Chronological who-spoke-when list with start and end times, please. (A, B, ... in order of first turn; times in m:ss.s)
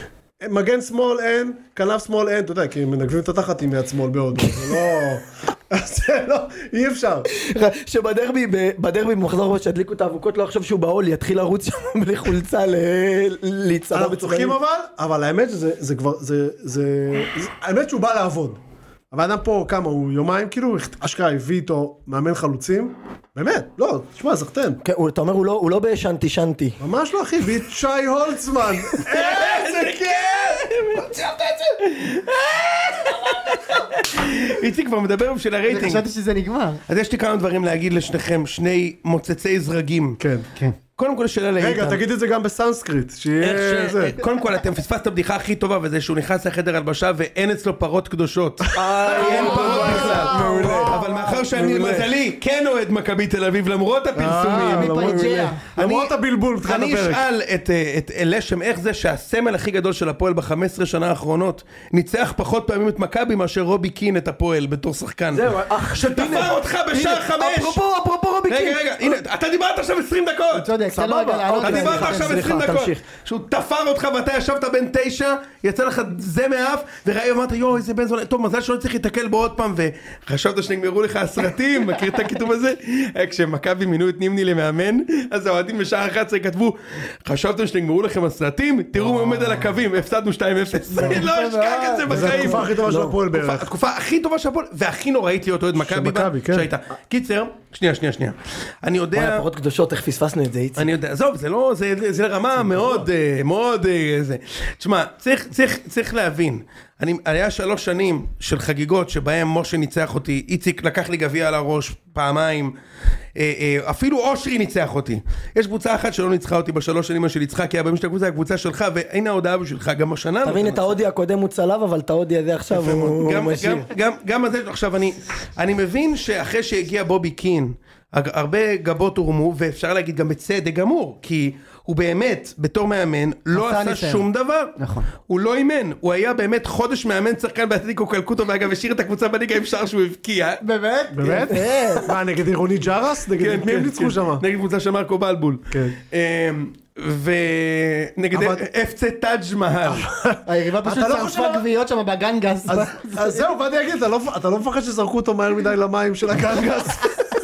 0:00.4-0:07.3 A
0:07.3-0:14.6 B
0:13.9-0:18.6 A
0:19.1-0:24.8 A
0:24.8-0:26.8 B
0:26.8-0:30.3 A
0:29.0-0:36.0 C
0:35.7-0:36.8 D
0:36.9-0:40.2 C
0:40.2-0:40.5 A
0:41.0-0:42.0 C
0:41.6-0:44.2 A
0:43.4-0:56.1 C
0:48.6-0:51.0 A
0:48.7-0:52.1 B
0:49.1-0:51.3 D
0:54.2-0:57.2 A
0:54.5-0:55.6 D
0:56.7-1:07.8 C
1:05.3-1:08.8 B
1:08.5-1:10.7 C
1:10.5-1:12.5 D
1:10.9-1:13.0 B
1:11.6-1:32.7 C
1:31.0-1:32.6 D
1:31.0-1:31.3 A
1:32.1-1:33.7 A
1:32.3-1:33.2 B
1:33.3-1:39.4 C
1:35.8-1:36.7 A
1:39.1-1:40.9 B
1:40.8-1:52.7 C
1:53.4-2:00.9 C
2:00.4-2:03.9 B
2:02.7-2:14.8 C
2:13.5-2:14.2 D
2:14.8-2:15.1 D
2:15.3-2:20.6 C
2:20.6-2:22.1 D
2:21.1-2:24.4 A
2:21.5-2:22.0 B
2:23.4-2:30.1 C
2:25.7-2:26.0 A
2:28.3-2:28.6 A
2:29.9-2:31.6 A
2:30.5-2:33.5 D
2:32.7-2:37.2 A